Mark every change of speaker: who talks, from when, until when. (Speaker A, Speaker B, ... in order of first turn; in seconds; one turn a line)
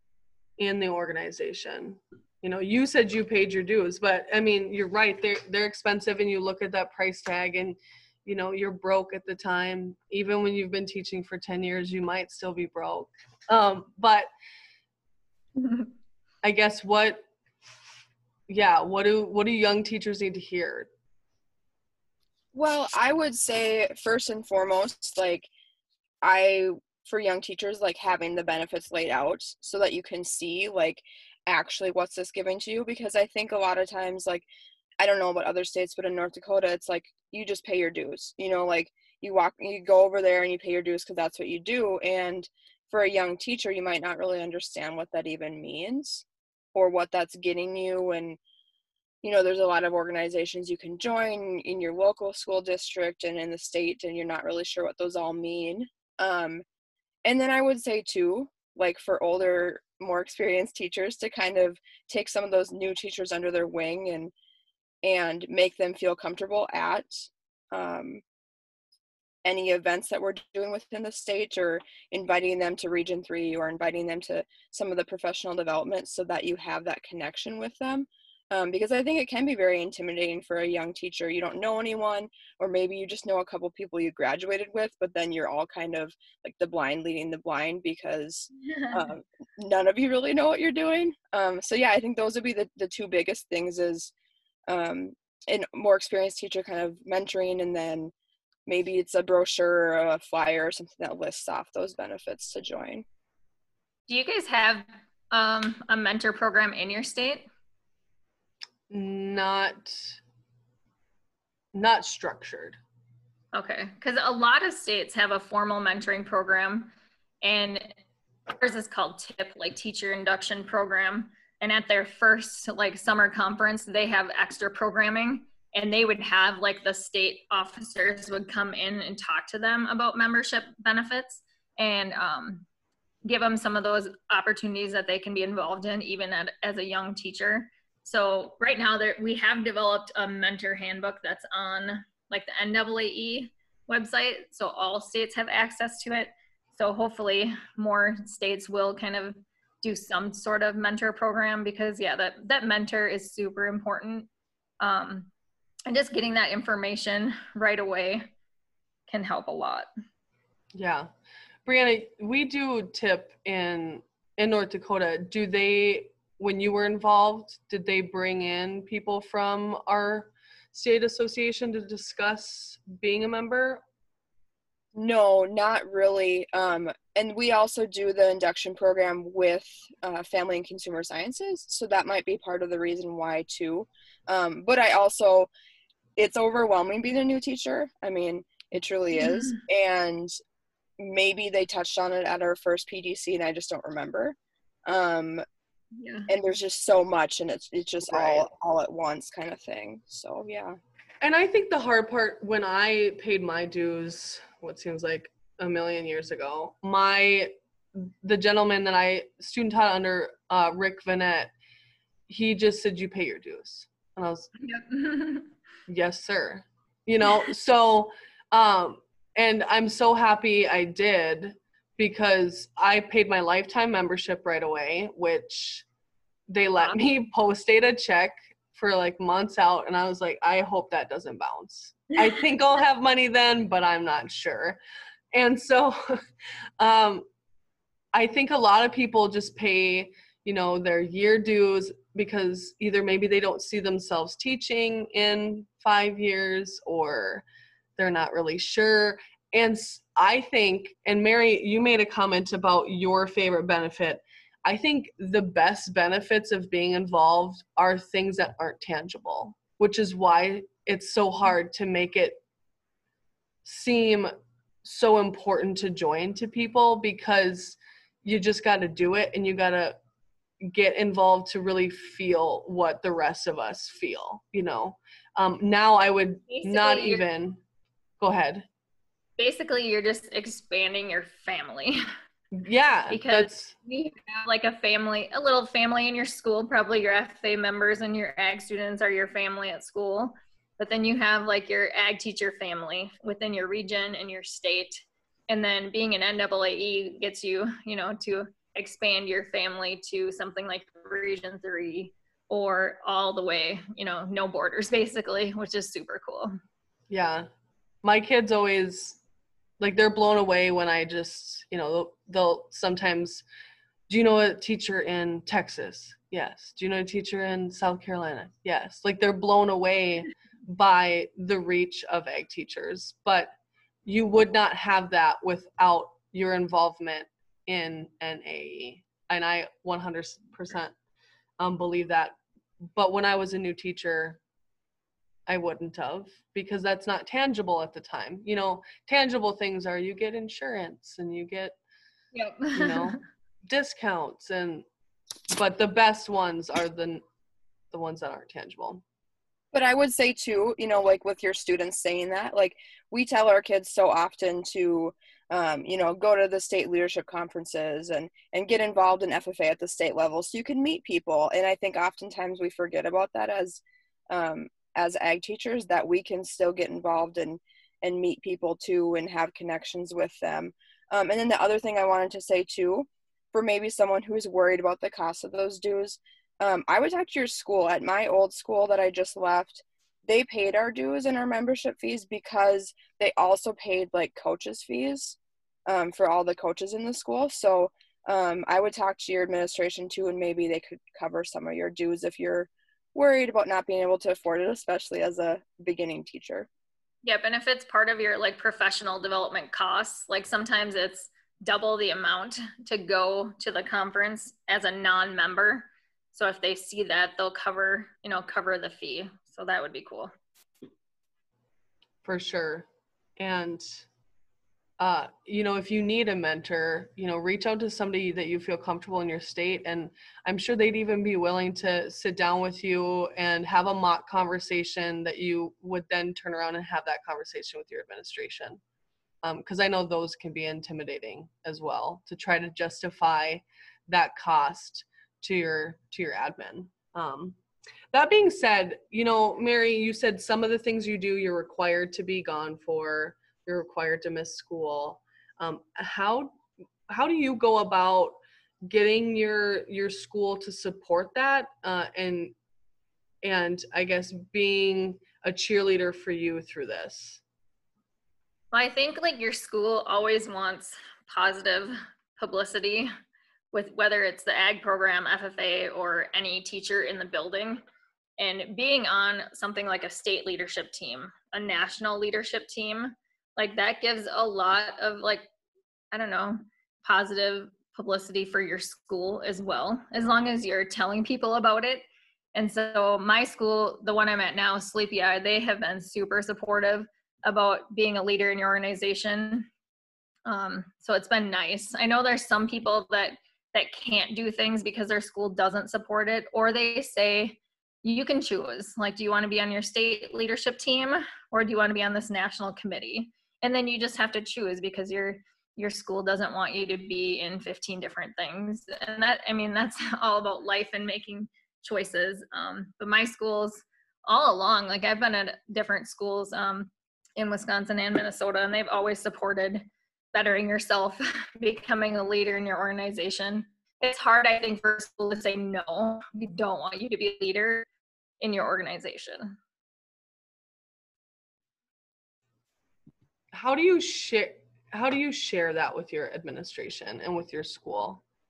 Speaker A: 0.6-14.3
Speaker B: 15.6-15.9
Speaker A: 16.4-17.3
Speaker A: 18.5-20.9
Speaker C: 22.5-25.5
Speaker C: 26.2-34.5
Speaker C: 35.0-46.2
Speaker C: 46.7-48.4
Speaker C: 49.2-56.6
Speaker C: 57.2-64.3
Speaker C: 65.0-67.2
Speaker C: 67.7-68.2
Speaker C: 69.4-94.1
Speaker B: 88.6-89.0
Speaker C: 94.7-98.1
Speaker C: 98.7-103.0
Speaker B: 104.1-107.5
Speaker A: 108.9-110.2
Speaker A: 111.7-112.8
Speaker B: 113.5-116.9
Speaker B: 117.4-117.9
Speaker B: 118.5-132.7
Speaker B: 133.2-154.3
Speaker B: 154.8-155.3
Speaker B: 155.9-158.3
Speaker B: 159.1-159.9
Speaker A: 160.7-161.1
Speaker A: 161.6-173.8
Speaker C: 174.9-185.5
Speaker C: 186.2-190.3
Speaker B: 189.2-189.6
Speaker C: 191.0-195.4
Speaker B: 195.9-196.3
Speaker C: 196.3-200.8
Speaker A: 198.1-198.4
Speaker A: 201.2-211.5
Speaker A: 212.3-214.5
Speaker B: 214.6-215.5
Speaker A: 215.9-225.9
Speaker A: 226.5-234.8
Speaker A: 235.3-236.2
Speaker A: 236.8-237.3
Speaker A: 238.1-247.4
Speaker A: 248.0-262.4
Speaker A: 263.6-264.3
Speaker A: 264.8-270.0
Speaker A: 270.6-277.6
Speaker B: 276.5-277.2
Speaker A: 278.2-278.6
Speaker B: 279.4-282.0
Speaker A: 282.6-283.7
Speaker B: 283.1-306.5
Speaker A: 307.1-307.5
Speaker A: 308.0-309.2
Speaker A: 309.8-313.4
Speaker A: 314.1-323.5
Speaker A: 324.1-330.9
Speaker A: 331.6-332.4
Speaker A: 332.9-334.4
Speaker A: 335.5-341.8
Speaker B: 342.3-343.2
Speaker A: 342.7-344.9
Speaker A: 345.5-347.2
Speaker A: 347.9-349.0
Speaker C: 349.7-396.7
Speaker B: 397.2-410.3
Speaker A: 412.2-414.1
Speaker A: 415.0-428.8
Speaker A: 429.4-437.6
Speaker A: 438.1-452.6
Speaker A: 453.4-457.4
Speaker B: 458.7-463.1
Speaker B: 463.7-467.8
Speaker B: 468.4-475.5
Speaker B: 476.1-489.7
Speaker B: 490.4-527.9
Speaker B: 528.4-529.5
Speaker A: 533.5-538.2